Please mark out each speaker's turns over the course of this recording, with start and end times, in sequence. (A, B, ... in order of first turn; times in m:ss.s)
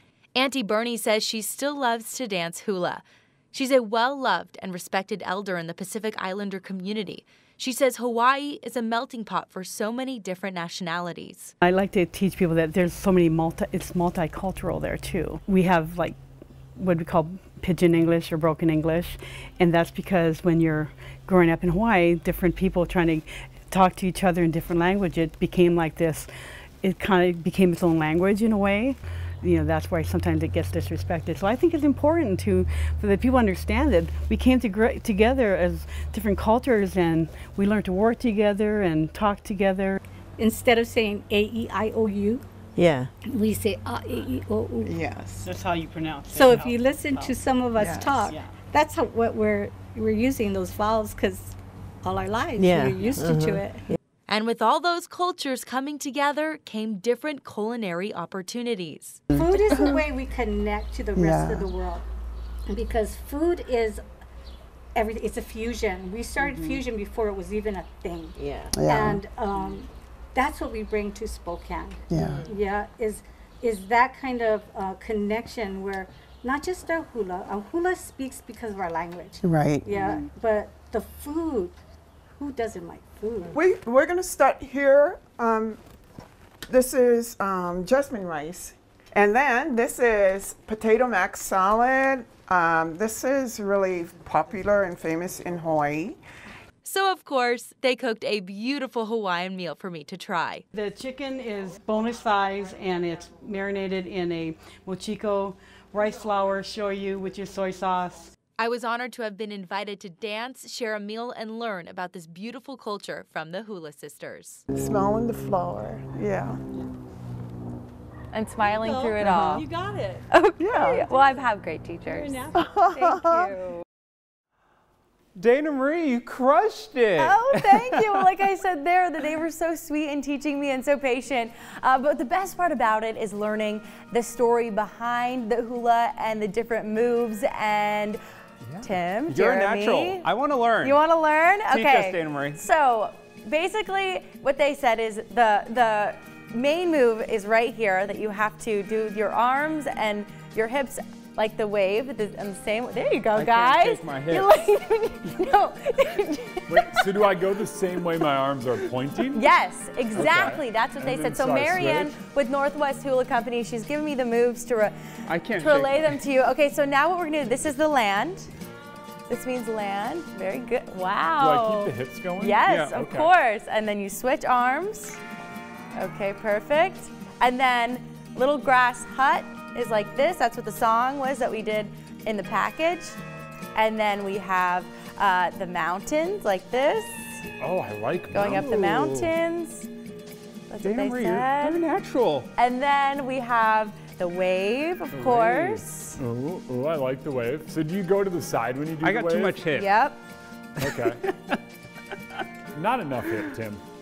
0:00.4-0:11.5 A
0:11.6-0:16.2 B
0:16.8-0:26.3 B
0:26.8-0:40.0 B
0:40.4-0:42.4 C
0:42.8-0:43.1 D
0:43.3-0:45.0 C
0:44.8-0:45.5 E
0:45.4-0:47.4 B
0:46.3-0:53.8 C
0:47.8-0:48.2 E
0:48.3-0:48.5 B
0:52.6-0:53.6 D
0:54.3-0:59.2 A
0:59.3-1:00.1 E
0:59.4-1:02.0 C
1:01.2-1:01.8 E
1:02.7-1:04.0 C
1:05.0-1:08.4 C
1:08.4-1:08.8 D
1:08.7-1:09.2 E
1:08.9-1:21.8 C
1:12.1-1:12.5 E
1:12.1-1:12.6 D
1:19.4-1:20.2 E
1:22.4-1:23.6 C
1:23.5-1:25.8 E
1:26.7-1:36.2 E
1:36.8-1:40.6 A
1:40.7-1:48.3 B
1:48.6-1:54.6 A
1:54.7-1:56.6 E
1:58.3-1:59.7 F
1:58.8-2:00.2 C
1:59.4-1:59.7 B
2:00.3-2:03.7 F
2:00.6-2:01.1 E
2:02.2-2:02.4 B
2:02.6-2:03.5 E
2:05.4-2:08.3 G
2:07.2-2:18.2 F
2:18.7-2:18.9 H
2:18.8-2:20.2 F
2:19.3-2:21.0 G
2:20.8-2:37.1 F
2:21.7-2:22.6 G
2:33.3-2:34.5 G
2:36.7-2:39.4 H
2:39.3-2:44.9 F
2:40.1-2:42.2 H
2:45.3-2:46.1 G
2:45.6-2:48.5 F
2:49.3-2:55.2 F
2:51.4-2:53.3 H
2:52.7-2:53.0 G
2:56.0-3:03.2 F
3:03.8-3:07.5 F
3:07.6-3:08.8 H
3:08.3-3:09.9 F
3:08.6-3:09.3 G
3:10.7-3:11.8 F
3:10.8-3:12.5 G
3:12.6-3:16.2 F
3:15.1-3:19.7 H
3:19.0-3:19.9 G
3:19.7-3:20.2 F
3:20.8-3:21.2 H
3:20.9-3:21.5 G
3:22.8-3:23.8 H